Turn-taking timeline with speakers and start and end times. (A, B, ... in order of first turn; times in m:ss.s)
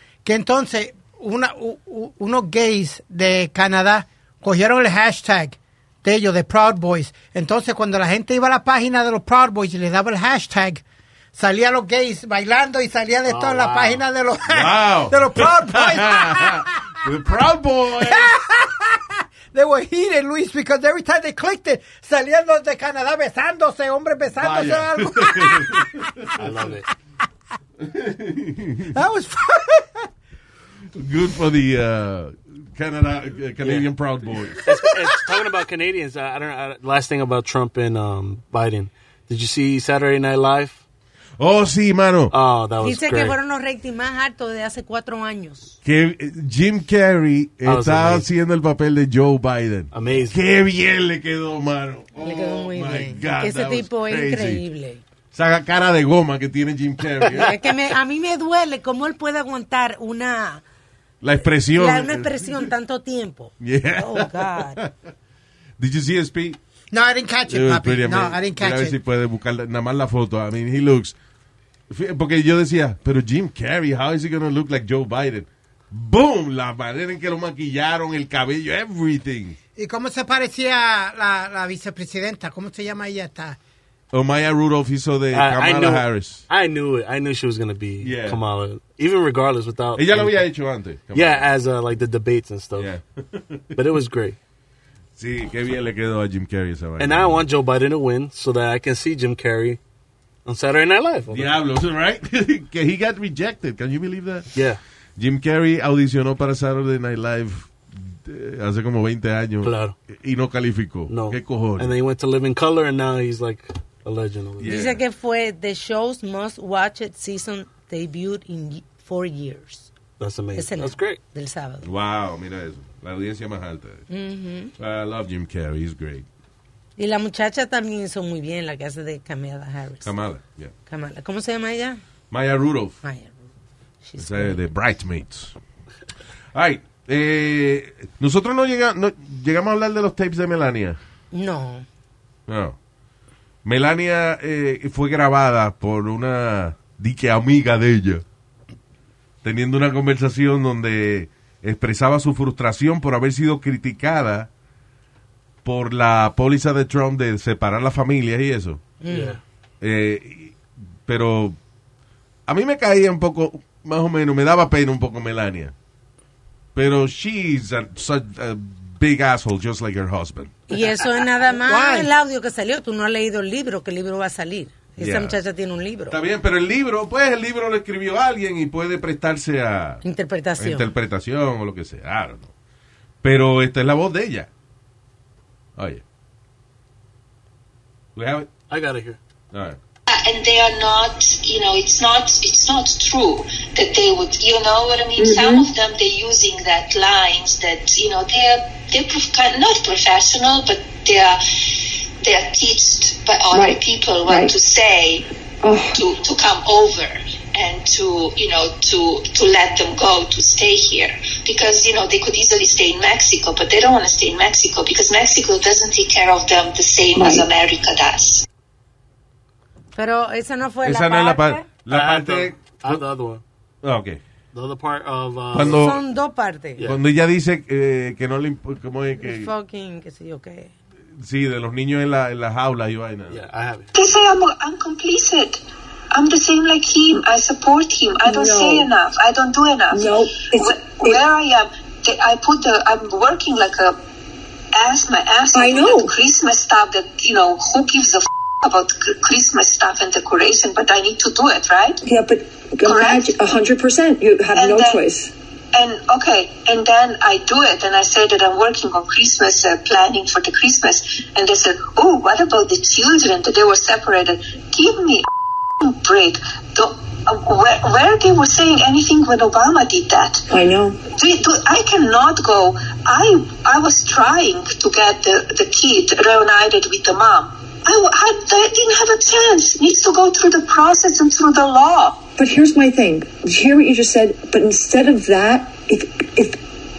0:00.2-0:10.8 A
0:11.3-0:16.7 A
0:13.3-0:14.0 B
0:14.5-0:18.3 C
0:18.0-0:26.1 A
0:24.4-0:26.4 C
0:26.4-0:26.9 B
0:27.8-0:29.0 C
0:28.9-0:30.1 A
0:30.9-0:34.7 C
0:33.6-0:33.9 B
0:34.6-0:40.8 B
0:41.4-0:42.3 C
0:42.3-0:43.4 B
0:42.8-0:45.8 D
0:45.8-0:54.6 C
0:47.6-0:48.3 B
0:49.9-0:50.4 B
0:52.2-0:55.0 D
0:55.3-0:57.6 C
0:57.3-1:00.6 D
1:01.2-1:02.7 C
1:01.7-1:04.8 D
1:03.6-1:05.0 C
1:05.8-1:06.6 C
1:06.9-1:09.0 A
1:07.5-1:11.2 C
1:11.9-1:19.6 C
1:19.8-1:23.6 A
1:24.1-1:26.4 C
1:25.3-1:30.4 B
1:28.0-1:28.4 C
1:30.0-1:31.5 C
1:31.1-1:32.9 B
1:32.8-1:33.6 C
1:33.7-1:34.4 B
1:35.2-1:37.4 C
1:37.0-1:39.8 B
1:40.5-1:41.6 B
1:41.3-1:44.5 C
1:44.5-1:44.8 B
1:45.2-1:51.9 C
1:49.6-1:50.0 B
1:51.1-1:54.8 B
1:54.6-1:55.0 C
1:54.6-1:59.9 D
2:00.2-2:01.2 B
2:00.6-2:01.9 D
2:01.8-2:04.0 C
2:04.1-2:04.7 D
2:04.8-2:06.3 C
2:07.0-2:10.1 D
2:10.0-2:10.7 C
2:10.9-2:12.0 D
2:12.3-2:13.0 C
2:13.0-2:13.4 D
2:14.0-2:14.6 D
2:14.2-2:15.6 C
2:16.5-2:21.0 C
2:21.3-2:21.9 D
2:22.5-2:22.8 C
2:23.6-2:28.2 C
2:29.4-2:34.5 C
2:35.6-2:38.8 C
2:39.0-2:39.4 D
2:39.1-2:39.4 B
2:39.8-2:41.6 C
2:42.5-2:45.8 C
2:46.8-2:50.6 C
2:50.7-2:56.2 D
2:51.6-2:52.1 A
2:55.0-2:55.4 C
2:56.1-3:00.0 C
3:00.0-3:00.9 D
3:00.6-3:02.5 C
3:03.2-3:04.5 C
3:05.8-3:06.0 C
3:08.2-3:08.5 C
3:08.7-3:09.2 B
3:09.5-3:09.8 C
3:10.1-3:25.3 E
3:15.2-3:15.7 F
3:23.5-3:24.5 F
3:25.6-3:26.0 F
3:25.9-3:38.4 E
3:37.2-3:37.5 F
3:40.0-3:41.7 D
3:40.8-3:43.0 C
3:41.9-3:43.4 B
3:43.8-3:44.2 C
3:44.5-3:45.8 B
3:45.5-3:46.0 C
3:45.6-3:46.8 D
3:46.8-3:47.0 B
3:46.8-3:49.5 C
3:49.2-3:50.7 D
3:51.1-3:53.4 C
3:53.3-3:54.0 B
3:54.0-4:04.0 E
3:58.3-3:58.9 F
3:59.9-4:01.2 F
4:04.7-4:12.0 E
4:05.5-4:06.1 F
4:12.0-4:15.3 F
4:12.8-4:13.4 E
4:14.6-4:15.0 E
4:15.7-4:25.3 E
4:25.8-4:30.4 E
4:30.5-4:31.0 F
4:31.1-4:42.3 E
4:42.4-4:46.6 F